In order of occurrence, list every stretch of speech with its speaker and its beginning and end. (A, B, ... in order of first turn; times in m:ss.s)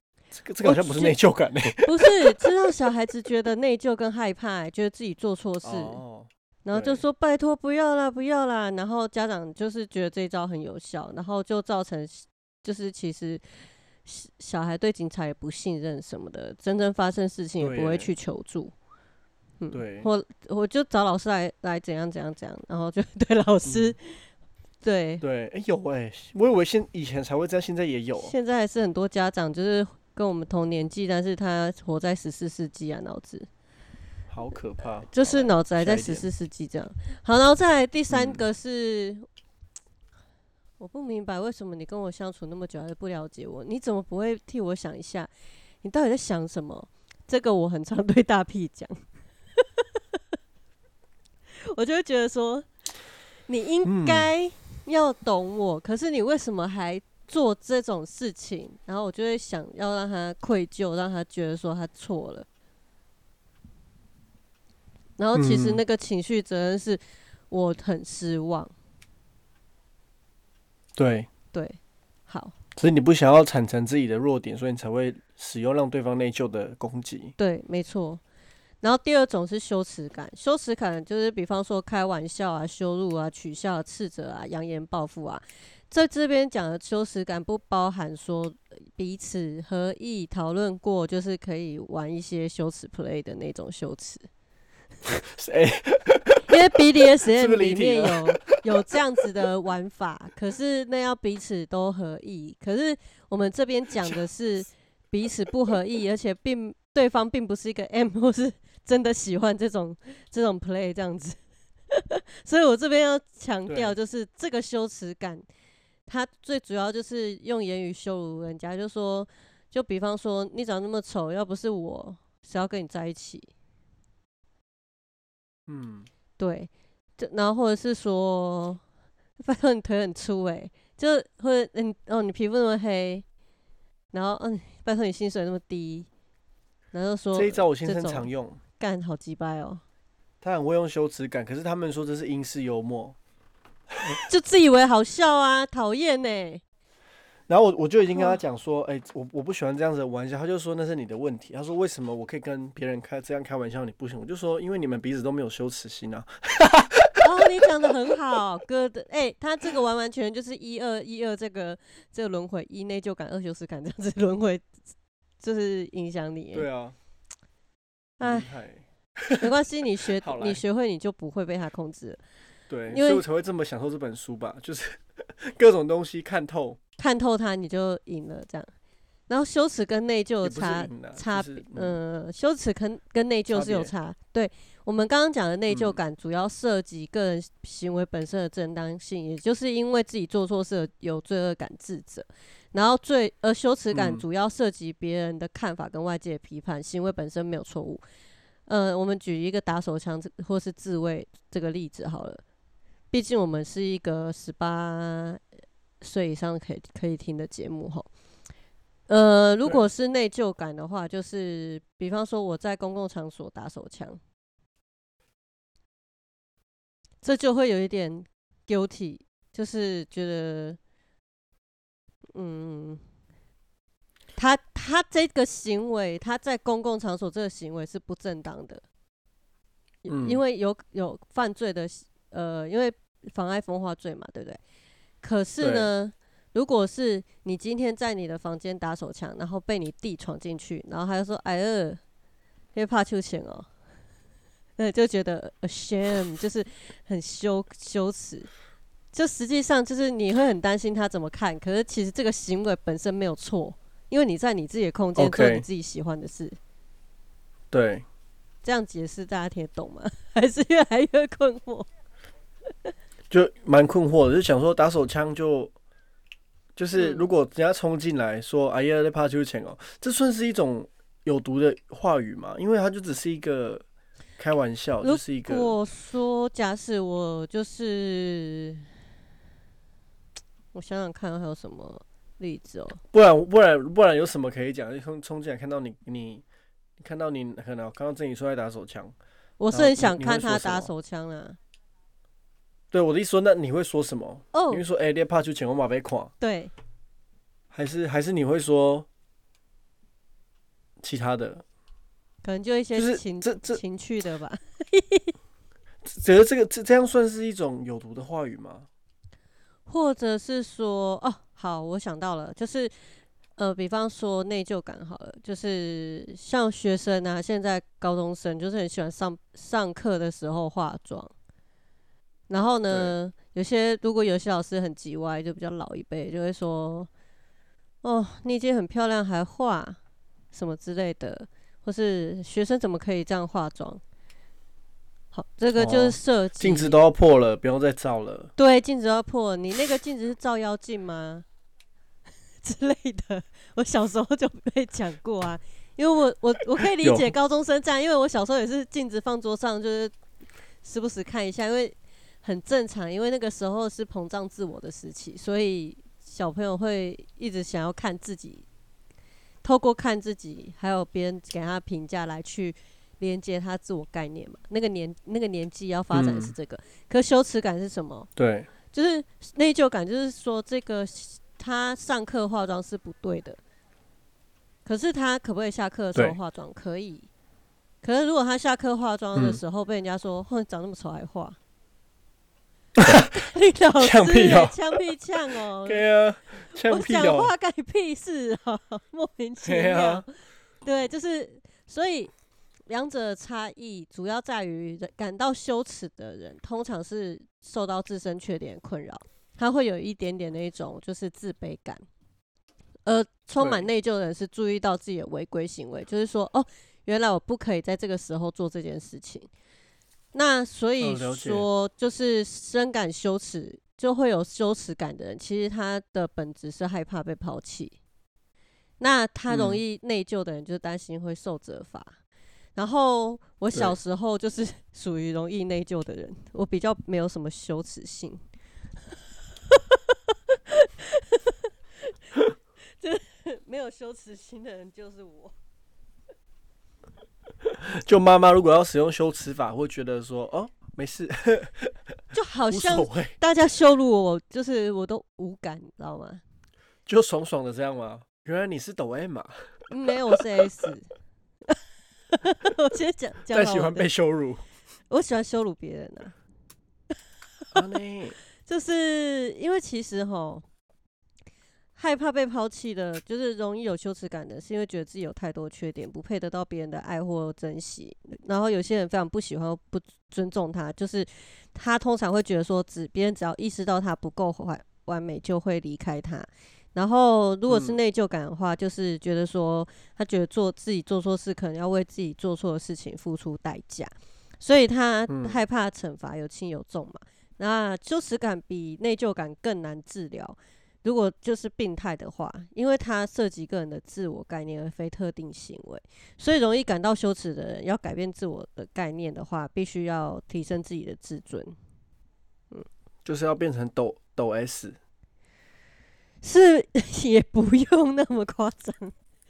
0:00.3-0:02.4 A
0:00.6-0:01.2 B
0:01.8-0:06.0 B
0:05.6-0:07.0 A
0:06.6-0:13.4 B
0:14.1-0:18.7 B
0:17.6-0:18.1 A
0:19.6-0:24.2 B
0:19.7-0:20.1 A
0:23.6-0:24.0 A
0:24.8-0:25.2 B
0:25.2-0:28.3 A
0:28.2-0:33.5 B
0:34.3-0:36.3 A
0:35.1-0:39.3 B
0:38.1-0:38.4 A
0:40.8-0:45.3 B
0:45.8-0:49.0 B
0:51.6-0:52.7 B
0:53.5-1:02.5 B
0:53.8-0:54.3 A
1:05.2-1:08.7 B
1:05.4-1:05.8 A
1:11.0-1:11.3 A
1:11.5-1:12.5 B
1:12.8-1:17.3 A
1:17.4-1:18.2 B
1:18.8-1:34.3 B
1:35.1-1:36.5 A
1:36.5-1:51.4 B
1:37.2-1:39.2 A
1:51.9-1:55.5 B
1:53.7-1:54.0 A
1:56.1-2:03.5 B
2:05.7-2:06.1 A
2:06.4-2:08.8 B
2:09.4-2:13.2 B
2:14.1-2:16.1 B
2:16.9-2:18.3 B
2:17.4-2:18.6 A
2:18.8-2:19.8 B
2:20.4-2:23.2 A
2:24.1-2:26.6 B
2:27.5-2:37.2 A
2:28.1-2:28.4 B
2:37.2-2:44.6 B
2:45.4-2:46.7 B
2:46.5-2:47.0 A
2:48.2-2:48.5 B
2:48.2-2:49.5 A
2:49.4-2:52.2 B
2:50.2-2:50.6 A
2:52.7-2:56.8 A
2:52.9-2:53.2 B
2:57.0-2:58.7 B
2:59.3-3:18.0 B
3:00.4-3:02.0 A
3:03.5-3:03.9 A
3:05.7-3:06.0 A
3:13.9-3:14.2 A
3:18.7-3:22.4 B
3:23.1-3:25.4 B
3:26.0-3:28.1 B
3:29.1-3:34.2 B
3:37.2-3:40.8 B
3:42.4-3:43.0 B
3:44.4-3:48.8 B
3:50.0-3:54.6 B
3:50.1-3:50.4 A
3:55.2-4:02.0 B
3:55.6-3:55.9 A
4:02.8-4:03.7 B
4:04.8-4:08.5 B
4:09.1-4:16.6 B
4:15.2-4:15.7 A
4:17.7-4:18.0 A
4:18.6-4:21.9 B
4:23.3-4:25.7 A
4:26.8-4:33.8 A
4:27.0-4:27.3 B
4:34.4-4:35.7 A
4:35.0-4:38.9 B
4:40.7-4:43.0 B
4:43.1-4:46.4 A
4:47.0-4:49.1 A
4:49.6-4:51.6 B
4:49.7-4:50.9 A
4:52.9-4:56.3 A
4:54.5-4:54.8 B
4:56.4-4:56.7 B
4:57.7-4:59.1 A
5:01.0-5:01.6 A
5:02.4-5:05.3 B
5:02.9-5:03.8 A
5:06.0-5:08.9 A
5:09.9-5:12.9 B
5:13.6-5:21.3 B
5:22.5-5:27.1 B
5:28.0-5:30.0 B
5:30.5-5:34.0 B
5:35.3-5:37.0 B
5:35.8-5:38.5 A
5:38.6-5:41.4 B
5:42.6-5:50.1 B
5:47.0-5:47.3 A
5:50.8-5:58.6 B
5:59.6-6:08.3 B
6:06.1-6:06.6 A
6:08.4-6:08.7 A
6:08.9-6:13.6 B
6:14.8-6:17.3 B
6:18.0-6:21.6 B
6:19.4-6:19.6 A
6:23.0-6:23.3 A
6:23.2-6:26.0 B
6:24.0-6:24.8 A
6:25.8-6:27.5 A
6:26.9-6:30.3 B
6:29.6-6:30.2 A
6:30.8-6:32.3 B
6:32.9-6:42.0 B
6:43.1-6:49.5 B
6:43.6-6:43.9 A
6:50.3-6:58.0 B
6:51.0-6:51.6 A
6:59.0-7:02.2 B
6:59.5-6:59.8 A
7:02.8-7:08.4 B
7:09.7-7:11.6 B
7:13.0-7:15.5 B
7:17.8-7:21.9 A
7:22.3-7:26.4 B
7:22.7-7:23.4 A
7:27.1-7:30.4 A
7:29.9-7:31.1 B
7:32.4-7:34.1 B
7:33.5-7:34.6 A
7:35.1-7:36.3 B
7:37.7-7:38.4 A
7:38.7-7:40.6 B
7:42.0-8:21.8 B
7:57.7-7:58.0 A
8:05.3-8:05.6 A
8:23.2-8:25.0 A
8:26.4-8:29.1 B